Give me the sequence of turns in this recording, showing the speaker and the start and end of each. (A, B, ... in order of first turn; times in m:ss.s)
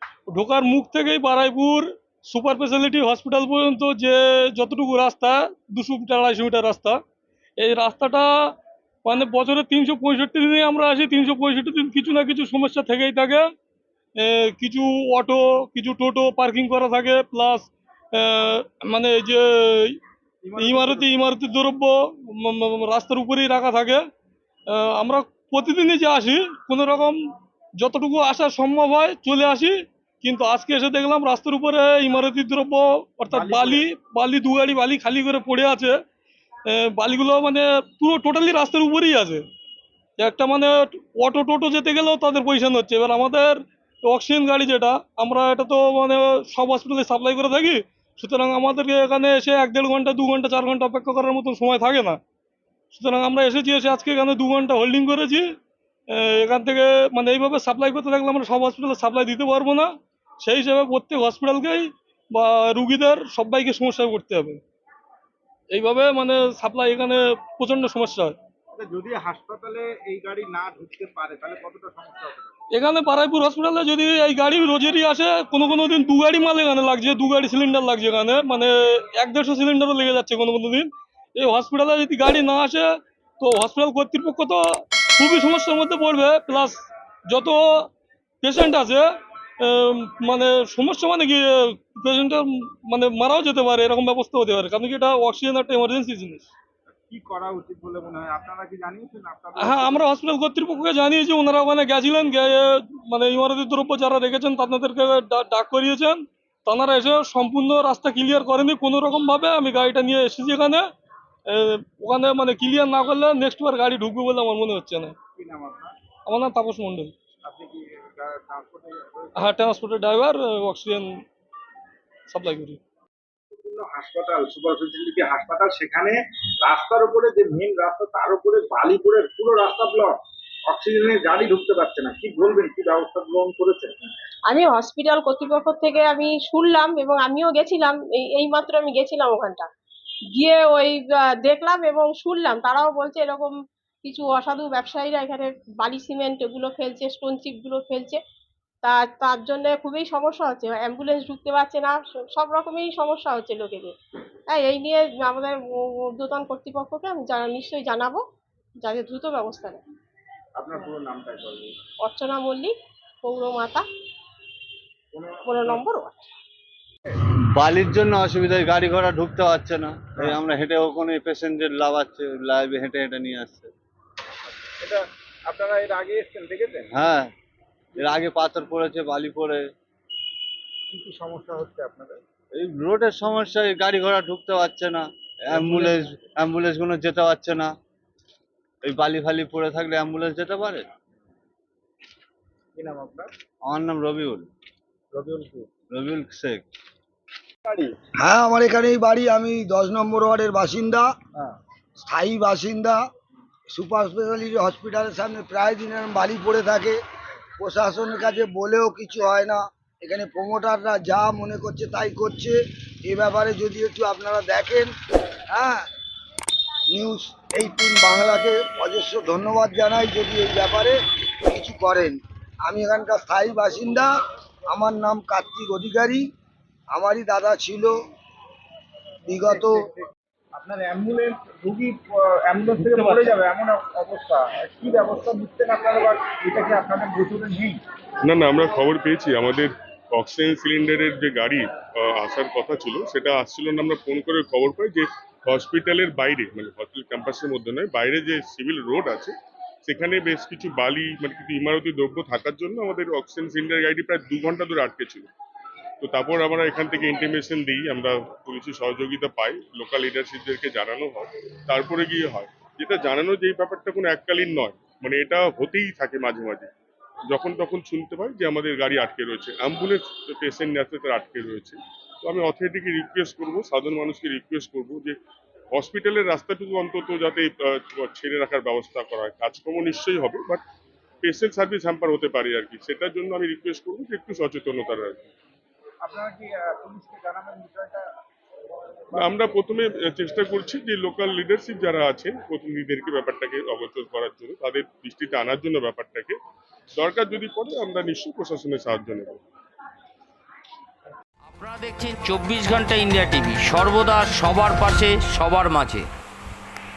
0:00.3-0:07.0 A
0:07.6-0:08.3 A
0:09.0-0:13.4 A
0:14.2-0:20.0 A
0:20.4-0:21.1 B
0:20.6-0:24.0 A
0:24.7-0:27.2 A
0:27.8-0:36.0 A
0:33.3-0:33.9 B
0:36.7-0:39.4 A
0:40.2-0:52.2 A
0:52.9-0:55.4 A
0:56.1-0:59.9 A
1:00.4-1:04.6 A
1:05.7-1:08.4 A
1:08.7-1:12.5 B
1:12.7-1:27.9 A
1:28.4-1:29.0 A
1:29.6-1:36.5 A
1:37.1-1:40.0 B
1:39.6-1:50.8 A
1:51.5-1:55.1 A
1:55.4-1:55.9 B
1:56.3-1:57.1 A
1:57.4-1:59.5 B
1:59.4-2:01.1 A
2:02.3-2:02.8 A
2:03.5-2:10.1 B
2:10.7-2:14.0 B
2:14.5-2:19.7 C
2:20.3-2:28.2 C
2:28.8-2:33.9 C
2:34.5-2:38.2 C
2:38.8-2:39.8 C
2:40.6-2:41.7 B
2:42.0-2:43.8 C
2:45.1-2:45.8 B
2:45.4-2:46.2 C
2:47.5-2:53.7 D
2:50.1-2:50.4 B
2:54.8-2:56.9 B
2:56.9-2:57.3 D
2:58.0-2:59.6 D
3:00.9-3:02.2 B
3:02.5-3:07.7 D
3:05.5-3:06.2 B
3:08.8-3:10.8 D
3:12.8-3:13.3 B
3:13.6-3:14.5 D
3:15.1-3:15.7 B
3:15.9-3:16.6 D
3:17.6-3:18.0 B
3:18.2-3:21.1 E
3:22.0-3:23.0 E
3:23.7-3:27.0 E
3:27.6-3:34.9 E
3:35.5-3:35.8 E
3:36.9-3:41.0 E
3:41.5-3:44.1 E
3:44.7-3:46.2 E
3:46.9-3:47.9 E
3:49.3-3:49.8 E
3:49.4-3:57.8 B
3:52.9-3:53.3 A
3:58.2-4:09.3 F
4:09.8-4:15.3 F
4:16.0-4:26.7 F
4:27.3-4:35.2 F
4:35.7-4:40.6 F
4:41.2-4:45.3 F
4:46.0-4:48.0 B
4:49.2-4:56.4 F
4:57.0-4:59.4 F
5:01.5-5:06.1 G